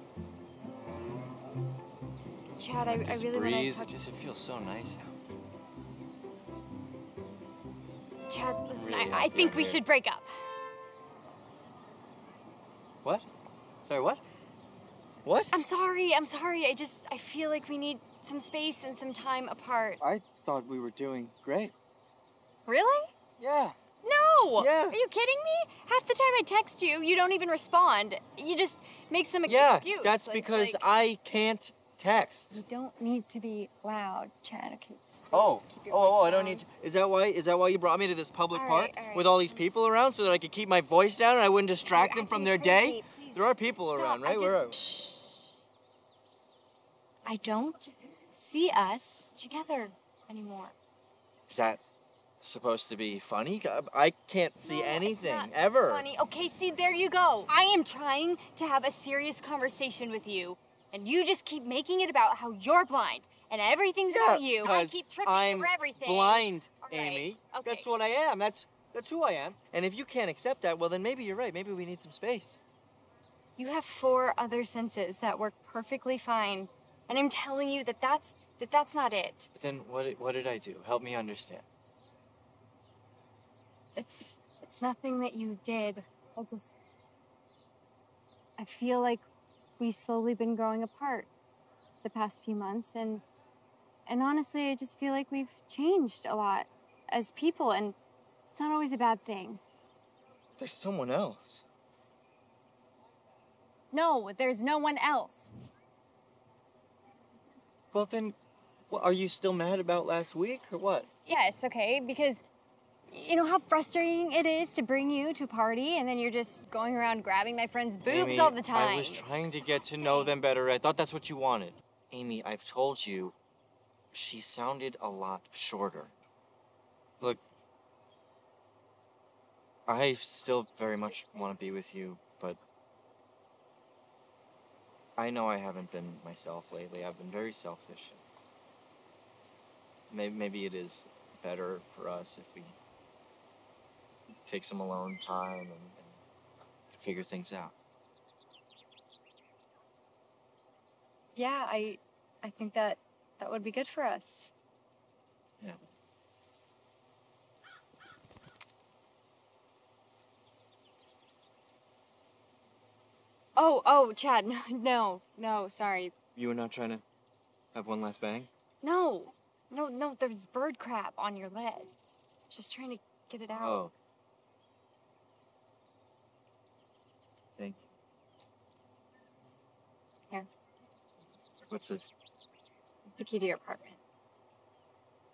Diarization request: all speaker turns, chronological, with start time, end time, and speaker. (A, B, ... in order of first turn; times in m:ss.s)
0:02.6-0:03.9 A
0:02.8-0:05.2 B
0:08.3-0:10.3 A
0:08.7-0:09.8 B
0:13.9-0:14.2 B
0:15.2-0:15.5 B
0:15.5-0:20.0 A
0:20.0-0:21.7 B
0:22.7-0:23.1 A
0:23.4-0:23.7 B
0:24.0-0:30.8 A
0:24.6-0:25.0 B
0:29.4-0:32.6 B
0:32.5-0:36.6 A
0:35.3-0:44.8 B
0:38.5-0:39.6 A
0:41.8-0:45.5 A
0:47.2-0:50.7 A
0:51.5-0:51.8 B
0:52.4-0:56.0 B
0:54.6-1:07.9 A
1:04.1-1:12.6 B
1:13.6-1:19.5 A
1:19.5-1:21.6 B
1:24.0-1:26.7 A
1:28.6-1:29.2 A
1:29.8-1:31.3 A
1:32.0-1:33.2 A
1:34.1-1:38.0 A
1:38.5-1:39.6 A
1:40.6-1:41.6 B
1:43.9-1:45.5 A
1:47.9-1:48.4 B
1:48.9-1:51.1 B
1:51.3-1:52.4 A
1:53.1-2:00.3 A
1:58.0-2:03.4 B
2:04.1-2:06.1 B
2:09.9-2:12.6 B
2:15.2-2:18.2 B
2:20.1-2:22.8 B
2:24.4-2:26.2 B
2:26.9-2:27.7 B
2:31.4-2:34.5 A
2:43.6-2:46.1 A
2:46.3-2:47.0 B
2:47.7-2:48.5 B
2:48.8-2:51.9 A
2:52.5-2:53.8 A
2:53.5-2:53.9 B
2:57.6-2:57.9 B
3:01.6-3:02.1 B
3:03.1-3:04.0 A